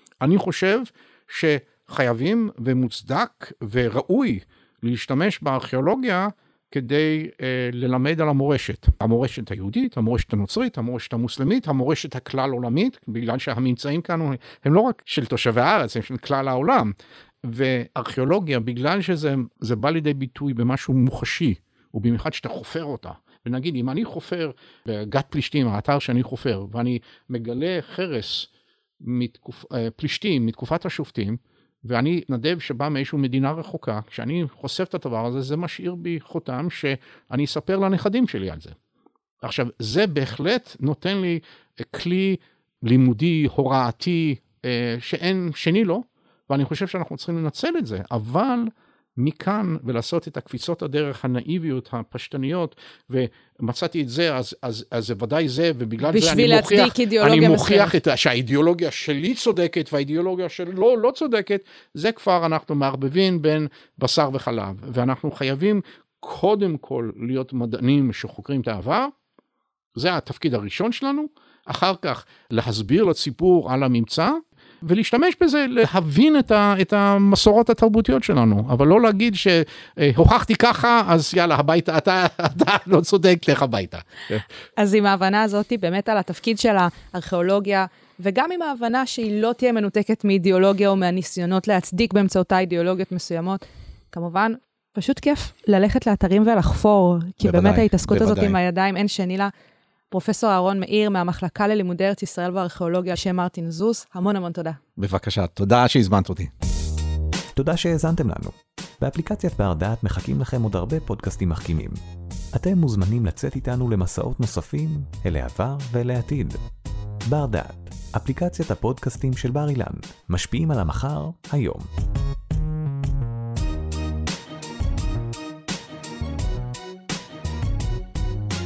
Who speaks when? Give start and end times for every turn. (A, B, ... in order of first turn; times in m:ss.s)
0:00.2-0:38.8 A
0:39.4-1:09.1 A
0:56.0-0:57.9 B
1:10.0-1:24.4 A
1:24.8-1:39.5 B
1:37.4-1:38.6 A
1:40.1-1:44.8 B
1:45.0-1:46.5 A
1:47.5-1:52.0 C
1:52.5-1:56.6 C
1:57.2-2:01.9 C